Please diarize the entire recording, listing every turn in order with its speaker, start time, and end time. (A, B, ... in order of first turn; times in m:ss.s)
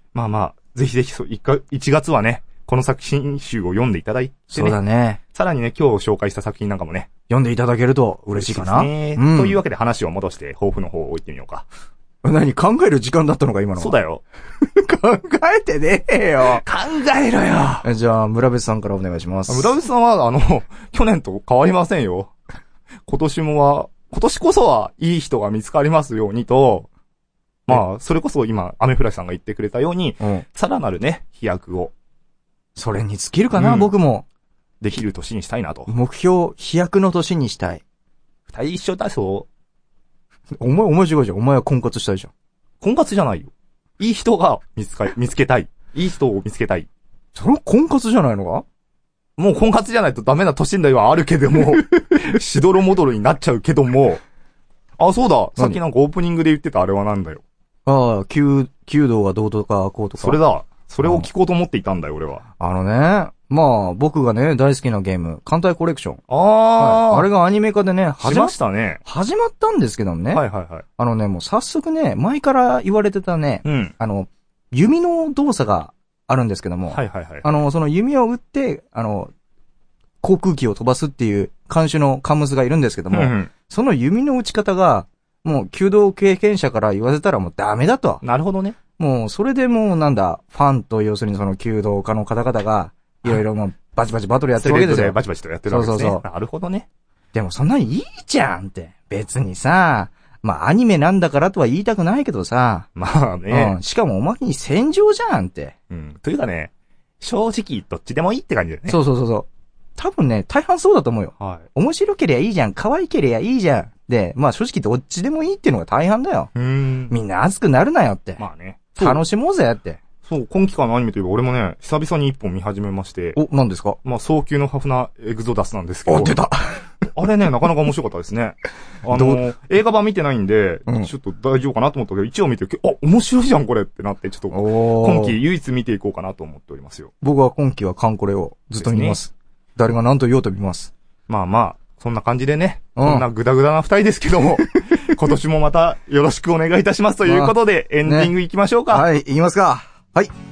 0:00.1-0:04.8 A
0:04.5-0:05.2 B
0:05.3-0:07.1 A
0:07.3-0:09.6 B
0:08.4-0:11.7 A
0:12.2-0:14.0 B
0:13.8-0:14.2 A
0:14.6-0:16.6 B
0:16.4-0:17.9 A
0:17.8-0:19.7 B
0:19.5-0:22.3 A
0:23.1-0:26.9 A
0:27.7-0:31.9 A
0:30.2-0:30.4 B
0:32.8-0:34.2 B
0:33.6-0:33.9 A
0:34.8-0:35.9 A
0:35.9-0:37.8 B
0:38.5-0:39.5 A
0:40.6-0:42.3 B
0:42.8-0:46.9 A
0:47.4-0:48.6 B
0:49.4-0:54.2 A
0:55.0-0:57.4 A
0:57.9-1:00.4 B
1:00.2-1:02.4 A
1:02.6-1:06.2 B
1:06.3-1:07.3 A
1:06.8-1:10.4 B
1:08.2-1:09.0 A
1:10.3-1:10.8 A
1:11.0-1:19.3 B
1:13.6-1:13.9 A
1:16.9-1:17.5 A
1:20.2-1:28.2 B
1:23.1-1:23.5 A
1:28.2-1:28.8 A
1:29.0-1:36.2 B
1:34.6-1:36.9 A
1:37.3-1:42.9 B
1:43.0-1:43.8 A
1:43.5-1:45.8 B
1:45.9-1:49.0 A
1:48.9-1:56.5 B
1:51.4-1:51.7 A
1:56.6-1:57.2 A
1:57.1-1:58.4 B
1:58.4-1:59.2 A
1:59.0-2:00.0 B
2:00.2-2:03.4 A
2:03.4-2:04.0 B
2:04.0-2:06.4 A
2:06.1-2:06.8 B
2:07.1-2:17.1 A
2:09.1-2:09.4 B
2:14.5-2:15.4 B
2:17.2-2:20.9 B
2:18.8-2:19.2 A
2:21.3-2:29.1 A
2:23.0-2:23.3 B
2:27.2-2:28.3 B
2:28.9-2:30.3 B